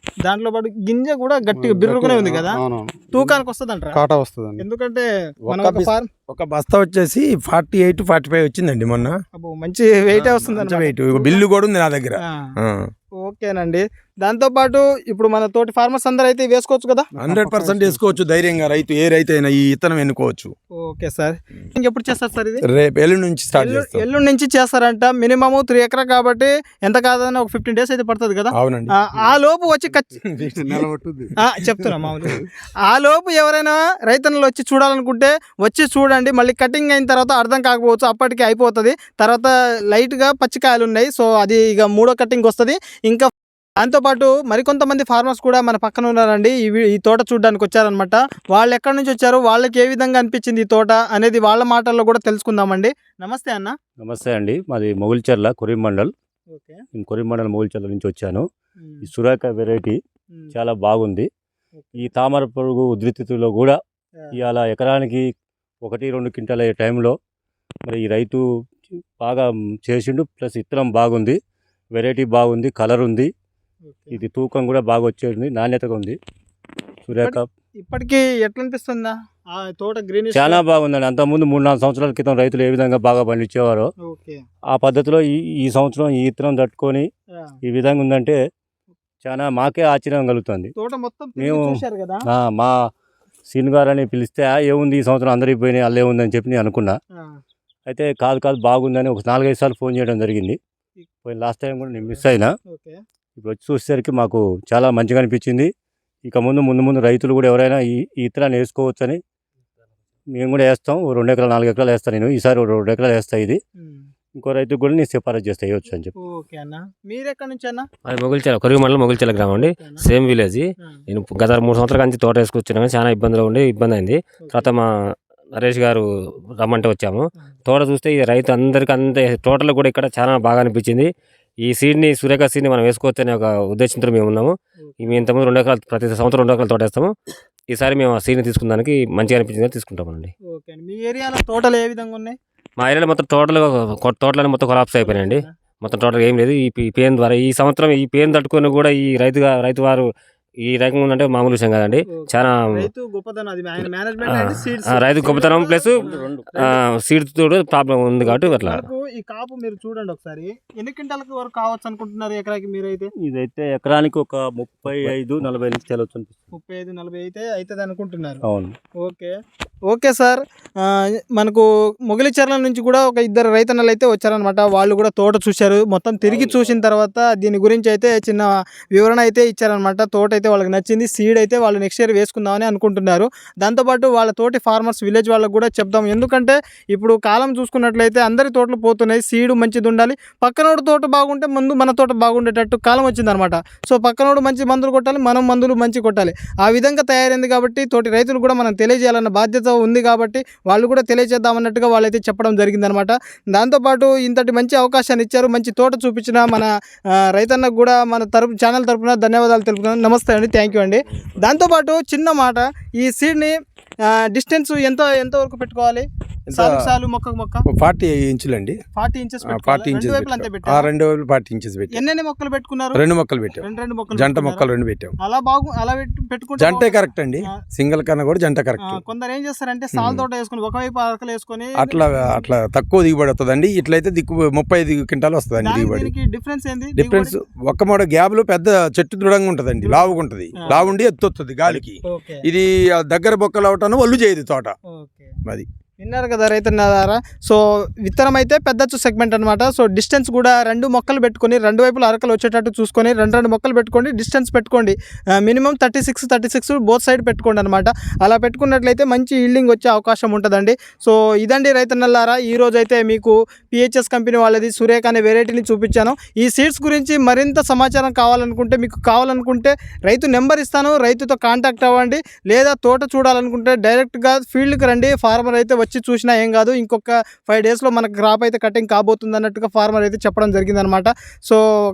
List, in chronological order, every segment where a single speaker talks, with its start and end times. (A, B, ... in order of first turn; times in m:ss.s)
0:00.2-0:02.6 A
0:01.5-0:03.4 B
0:03.1-0:04.0 A
0:03.9-0:04.6 B
0:04.6-0:06.1 A
0:05.5-0:09.2 C
0:09.3-0:11.4 A
0:10.1-0:12.9 C
0:12.3-0:12.5 A
0:13.2-0:17.1 A
0:17.1-0:18.2 B
0:17.2-0:20.5 C
0:20.8-0:22.6 A
0:22.6-0:24.0 C
0:23.6-0:30.2 A
0:28.6-0:28.9 C
0:30.2-0:32.4 B
0:30.4-0:30.8 C
0:31.4-0:53.7 A
0:54.0-0:56.1 D
0:56.5-0:56.8 A
0:56.9-0:58.5 D
0:58.8-0:59.1 A
0:59.0-1:00.0 D
1:00.5-1:01.3 D
1:01.8-1:02.1 A
1:02.0-1:03.8 D
1:04.3-1:05.3 D
1:05.8-1:07.2 D
1:07.9-1:11.4 D
1:11.9-1:13.3 D
1:13.9-1:14.2 A
1:14.1-1:16.2 D
1:17.1-1:17.5 D
1:17.2-1:20.6 A
1:20.3-1:23.9 D
1:24.0-1:24.4 A
1:24.7-1:27.1 D
1:27.6-1:28.4 D
1:29.2-1:30.7 D
1:30.8-1:32.3 A
1:31.4-1:32.9 D
1:33.5-1:37.0 D
1:37.2-1:37.4 A
1:37.9-1:40.6 D
1:41.2-1:42.5 D
1:42.7-1:43.0 A
1:43.4-1:45.7 D
1:46.2-1:49.2 D
1:50.3-1:53.6 D
1:53.8-1:54.1 A
1:54.4-1:56.1 D
1:56.2-1:57.9 A
1:58.0-2:11.1 E
1:59.6-2:00.0 A
2:04.4-2:04.7 A
2:11.6-2:17.1 E
2:14.8-2:15.2 A
2:17.7-2:20.3 E
2:20.5-2:22.4 A
2:22.8-2:30.1 E
2:25.0-2:25.5 A
2:30.6-2:32.9 E
2:32.1-2:36.2 A
2:34.2-2:35.9 E
2:35.7-2:36.8 D
2:36.6-2:38.8 E
2:38.2-2:43.1 A
2:43.2-2:46.4 D
2:46.5-2:48.4 A
2:48.4-2:48.8 D
2:49.0-2:49.3 A
2:49.9-3:33.5 A
2:56.3-2:56.7 D
3:34.1-3:37.6 A
3:36.5-3:36.9 C
3:37.7-3:38.8 C
3:39.0-3:40.9 A
3:39.5-3:42.0 C
3:41.9-3:43.0 A
3:43.0-3:45.2 C
3:43.6-3:44.7 A
3:45.2-3:47.6 A
3:46.6-3:49.0 C
3:48.9-3:52.4 A
3:50.0-3:50.2 C
3:51.8-3:56.1 C
3:55.6-3:57.4 A
3:57.0-4:04.8 C
3:59.8-4:00.9 A
4:02.0-4:02.4 A
4:04.9-4:05.4 A
4:06.0-4:41.6 A